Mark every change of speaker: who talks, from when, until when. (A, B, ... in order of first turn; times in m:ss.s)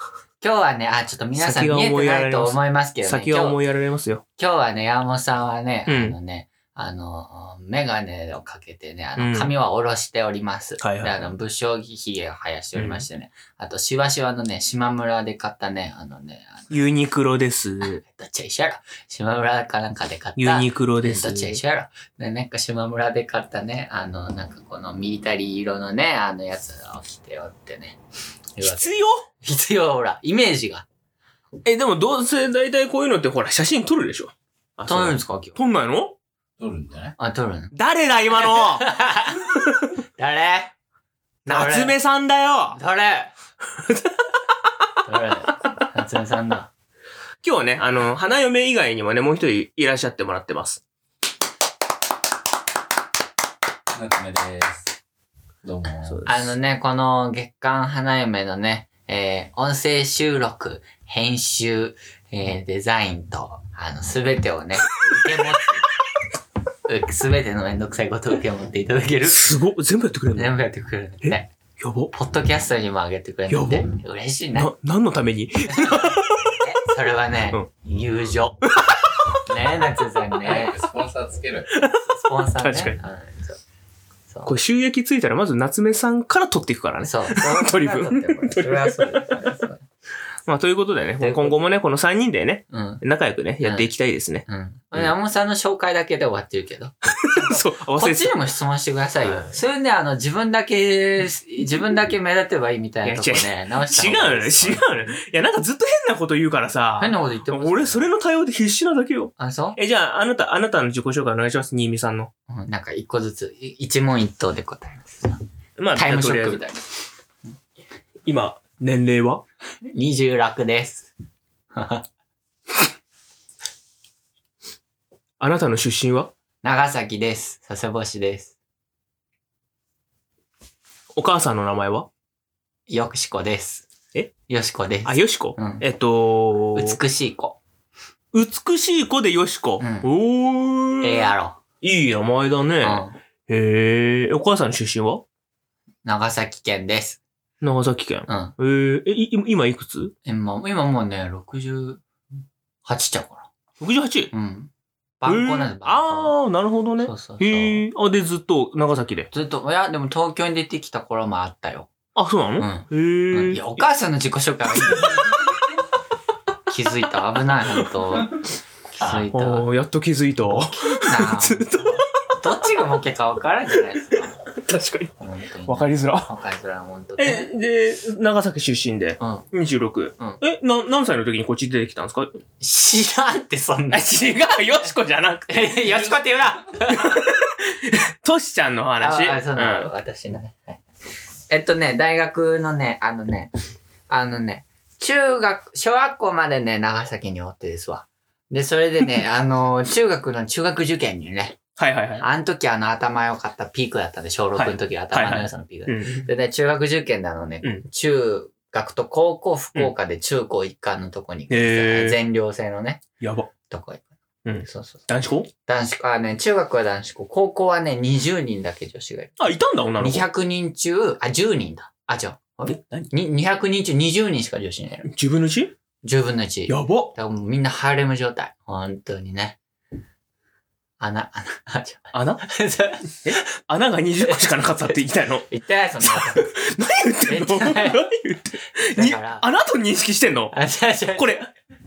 0:00.4-0:03.6 A
0:01.4-0:04.2 B
0:04.4-0:16.8 A
0:05.9-0:06.2 B
0:09.2-0:09.5 B
0:10.8-0:11.2 B
0:12.8-0:13.1 B
0:16.7-0:18.0 B
0:17.8-0:28.0 A
0:20.4-0:21.6 B
0:28.6-0:30.9 A
0:28.6-0:29.3 B
0:31.6-0:36.2 B
0:34.9-0:35.6 A
0:36.6-0:37.2 C
0:37.2-0:37.7 A
0:37.7-0:38.9 B
0:38.4-0:39.6 A
0:39.6-0:39.9 B
0:40.2-0:40.8 A
0:41.5-0:42.0 A
0:41.5-0:42.8 B
0:42.8-0:43.3 A
0:43.8-0:44.2 B
0:45.0-0:46.7 A
0:47.4-0:50.8 B
0:53.9-0:54.9 C
0:55.6-0:56.2 C
0:56.1-0:56.5 B
0:56.3-1:05.9 A
1:06.9-1:09.6 A
1:09.3-1:10.6 B
1:10.3-1:11.5 A
1:11.2-1:12.1 B
1:12.1-1:14.7 A
1:13.5-1:13.9 B
1:14.6-1:16.6 B
1:15.7-1:18.7 A
1:19.5-1:20.8 A
1:20.4-1:21.8 C
1:21.7-1:23.0 B
1:21.9-1:23.6 A
1:24.3-1:24.5 A
1:24.5-1:29.4 B
1:27.0-1:29.8 A
1:30.5-1:34.4 B
1:31.2-1:31.6 A
1:32.7-1:33.0 A
1:33.6-1:33.9 A
1:34.5-1:44.9 A
1:37.1-1:38.4 B
1:39.3-1:39.5 B
1:43.0-1:52.3 B
1:47.0-1:48.1 A
1:49.4-1:49.8 A
1:52.5-1:55.4 A
1:55.8-1:56.6 B
1:56.0-1:56.9 A
1:58.2-1:59.4 B
1:59.9-2:01.1 A
2:01.7-2:02.0 A
2:05.4-2:06.3 B
2:06.6-2:08.5 A
2:11.2-2:12.1 B
2:12.9-2:13.9 A
2:14.5-2:15.8 A
2:15.1-2:17.0 B
2:16.7-2:17.6 A
2:18.3-2:25.2 B
2:19.8-2:20.1 A
2:21.0-2:21.6 A
2:22.8-2:23.2 A
2:26.0-2:27.2 A
2:27.6-2:30.1 B
2:28.3-2:28.5 A
2:30.2-2:32.0 A
2:32.8-2:33.5 A
2:33.8-2:34.3 B
2:34.3-2:36.3 A
2:35.3-2:39.3 B
2:37.0-2:37.9 A
2:39.3-2:41.9 A
2:42.2-2:43.7 B
2:42.6-2:45.5 A
2:44.8-2:45.5 B
2:46.7-2:48.4 A
2:49.0-2:49.7 A
2:49.0-2:52.4 B
2:50.5-2:54.4 A
2:54.5-2:55.1 B
2:55.2-2:57.5 A
2:55.7-2:56.3 B
2:57.2-3:02.4 B
2:59.2-2:59.5 A
3:02.6-3:04.1 A
3:03.9-3:06.2 B
3:05.5-3:07.2 A
3:06.9-3:09.9 B
3:09.0-3:10.8 A
3:11.5-3:13.5 A
3:14.1-3:21.6 A
3:21.8-3:22.3 B
3:22.2-3:33.0 A
3:24.6-3:26.3 B
3:31.5-3:32.2 B
3:33.2-3:33.5 B
3:33.7-3:34.1 A
3:34.4-3:35.5 B
3:34.6-3:35.0 A
3:35.7-3:39.4 A
3:39.4-3:40.2 B
3:40.0-3:45.1 A
3:42.6-3:43.1 B
3:45.0-3:45.7 B
3:46.0-3:49.6 A
3:46.7-3:47.1 B
3:51.0-3:53.4 A
3:52.1-3:52.5 B
3:53.2-3:55.5 B
3:54.2-3:54.5 A
3:55.5-3:56.5 A
3:56.0-4:00.6 B
3:57.3-3:58.1 A
3:58.9-3:59.5 A
4:00.5-4:01.4 A
4:01.2-4:01.5 B